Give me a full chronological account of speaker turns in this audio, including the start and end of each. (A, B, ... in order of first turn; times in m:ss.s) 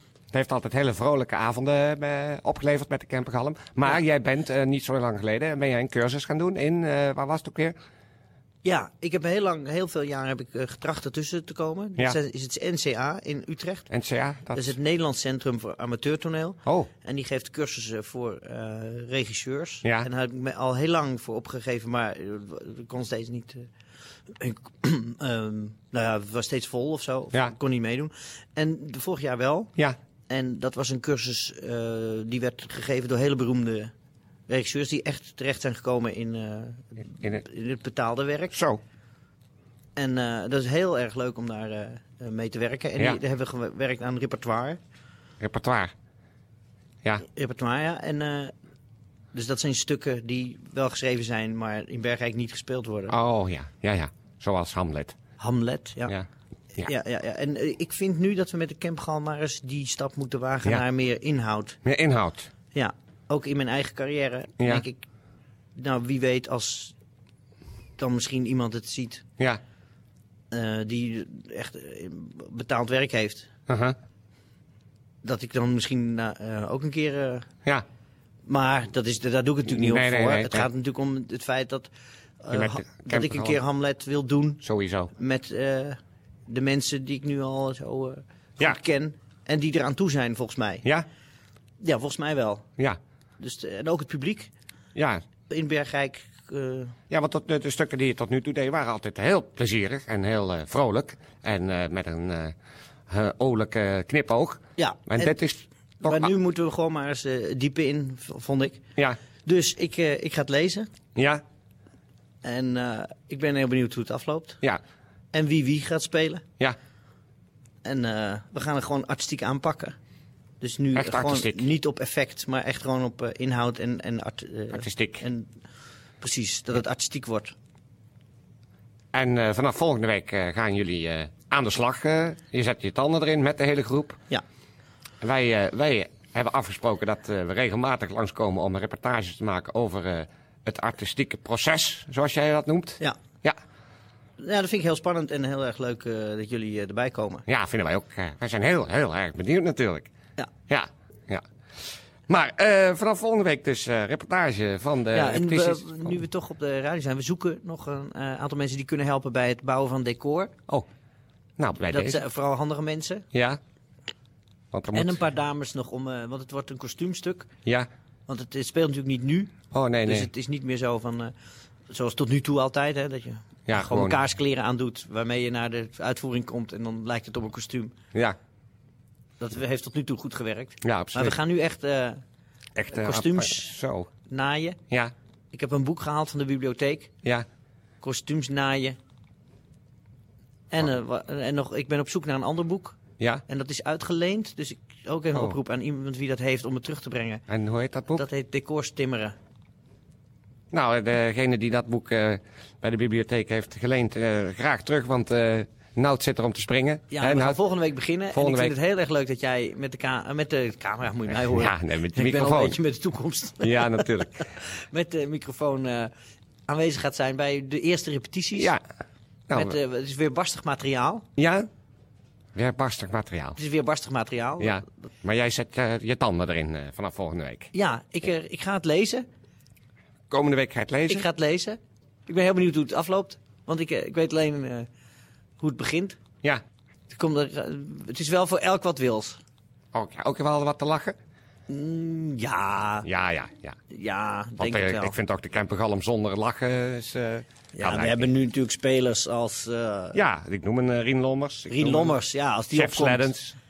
0:00.3-0:07.8 A
0:08.6-0:13.9 B
0:13.9-0:14.8 A
0:14.5-0:23.7 B
0:24.4-0:29.7 B
0:30.3-0:33.9 B
0:34.5-0:38.5 B
0:38.5-0:38.8 A
0:40.0-0:44.8 B
0:45.4-0:45.9 A
0:47.2-0:48.5 B
0:49.3-0:53.2 B
0:53.1-0:55.2 A
0:55.4-0:56.1 B
0:56.8-1:01.8 B
1:01.8-1:02.5 A
1:02.7-1:05.0 B
1:05.8-1:07.0 B
1:08.0-1:09.2 B
1:10.5-1:13.5 B
1:13.7-1:14.0 A
1:15.2-1:17.5 B
1:18.5-1:24.6 B
1:19.7-1:20.7 A
1:22.5-1:23.6 A
1:24.6-1:25.1 A
1:25.1-1:30.9 B
1:31.8-1:32.7 B
1:33.4-1:34.5 B
1:35.0-1:35.2 A
1:35.5-1:37.0 B
1:37.1-1:42.5 A
1:43.1-1:46.3 A
1:44.8-1:45.4 B
1:46.0-1:48.8 B
1:49.4-1:50.9 B
1:51.2-1:51.4 A
1:52.4-1:54.6 B
1:55.3-1:56.4 B
1:57.8-2:00.0 B
2:00.6-2:05.5 B
2:01.0-2:01.7 A
2:04.7-2:05.2 A
2:06.2-2:07.6 B
2:09.1-2:14.2 A
2:15.2-2:23.6 A
2:24.4-2:27.4 B
2:27.5-2:30.1 A
2:30.7-2:31.4 A
2:32.3-2:36.2 A
2:35.1-2:40.5 B
2:41.6-2:42.2 A
2:41.9-2:43.3 B
2:43.3-2:43.6 A
2:44.7-2:45.2 A
2:44.9-2:47.5 B
2:48.3-2:49.5 B
2:49.7-2:50.3 A
2:50.0-2:51.3 B
2:51.9-2:58.0 B
2:53.7-2:54.2 A
2:59.4-3:02.2 B
3:00.8-3:01.4 A
3:02.8-3:04.1 A
3:02.9-3:04.8 B
3:05.5-3:07.1 B
3:08.0-3:09.0 B
3:10.7-3:17.4 B
3:13.2-3:13.4 A
3:17.5-3:18.2 A
3:18.1-3:19.4 B
3:20.7-3:27.6 A
3:27.1-3:36.1 B
3:28.3-3:28.7 A
3:31.4-3:32.8 A
3:33.6-3:34.4 A
3:36.7-3:38.7 B
3:38.6-3:38.8 A
3:39.5-3:39.8 A
3:39.5-3:41.3 B
3:41.4-3:41.7 A
3:42.6-3:43.6 A
3:43.6-3:44.8 B
3:44.6-3:47.7 A
3:47.7-3:49.3 B
3:50.3-3:51.3 A
3:51.1-3:54.9 B
3:55.6-3:56.2 B
3:57.1-3:59.4 B
3:59.9-4:01.2 A
4:01.7-4:03.1 B
4:03.0-4:03.8 A
4:03.9-4:05.2 B
4:04.6-4:08.3 A
4:07.7-4:10.2 B
4:10.1-4:12.2 A
4:11.7-4:13.3 B
4:12.7-4:13.6 A